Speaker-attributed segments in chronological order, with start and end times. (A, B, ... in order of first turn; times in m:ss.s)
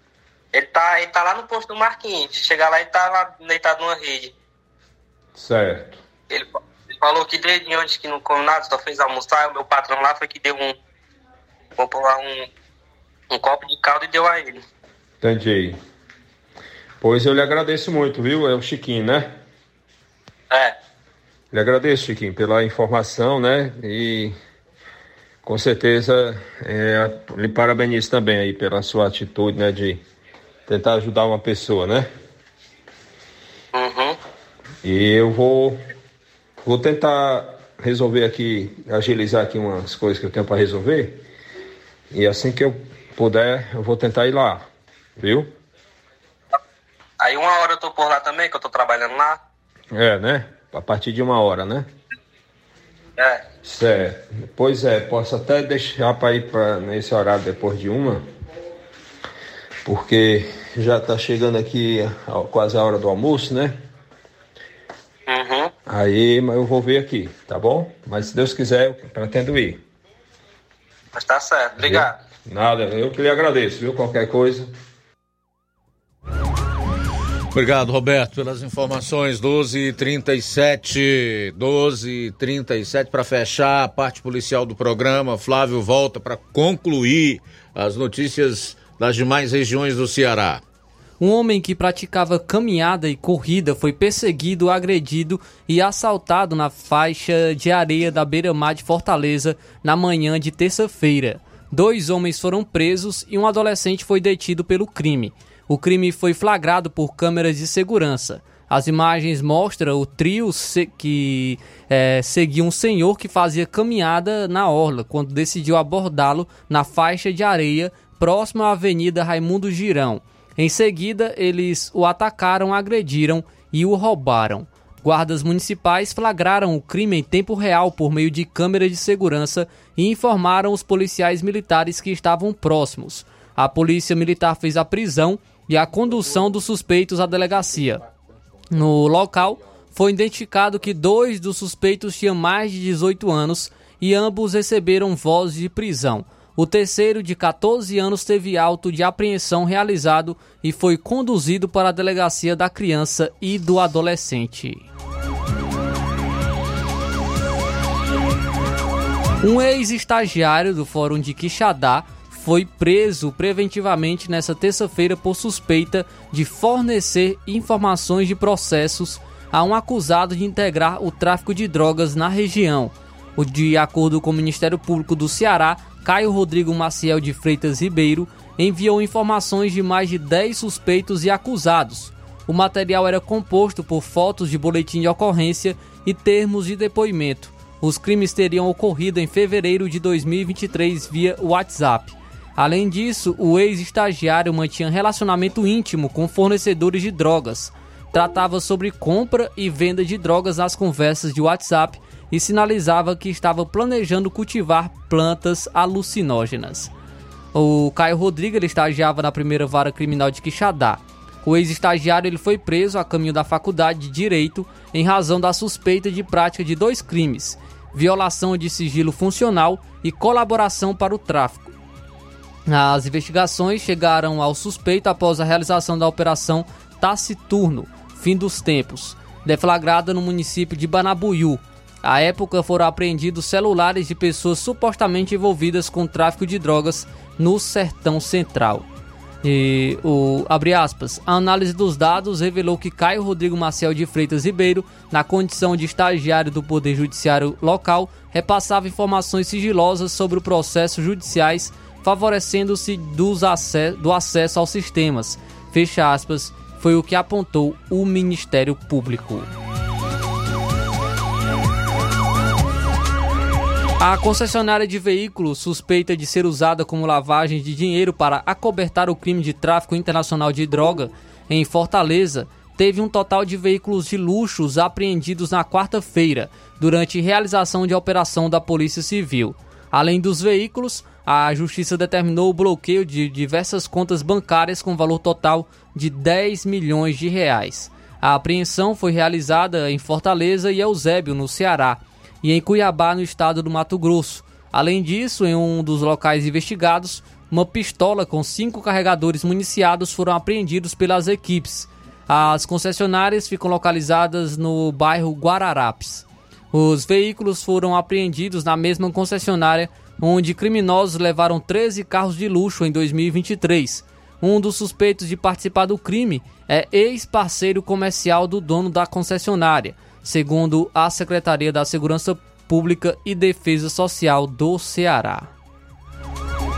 0:00.5-0:04.3 A
0:05.4-0:06.0 B
0:06.3-0:10.8 A
0:11.8-0:12.5 A
0:13.3-0:14.6 A
0:15.2-0:15.8 B
0:17.0-0:19.4 B
0:20.5-0:20.8 A
0:21.5-0:24.4 B
0:25.4-0:30.0 B
0:30.7-0:32.1 B
0:33.7-0:34.2 A
0:34.8-0:35.8 B
0:36.6-0:41.2 B
0:42.1-0:45.5 B
0:47.2-0:49.4 A
0:49.9-0:51.9 B
0:53.2-0:53.4 A
0:53.6-0:58.3 B
0:59.8-1:03.8 B
1:05.3-1:05.7 A
1:05.9-1:09.8 B
1:11.2-1:12.2 A
1:11.8-1:14.7 B
1:17.5-1:30.6 C
1:31.2-2:18.0 D
2:18.7-2:34.9 D
2:39.4-3:26.9 D
3:27.5-3:41.7 D
3:42.7-3:58.9 D
3:59.4-4:19.5 D
4:24.0-5:25.5 D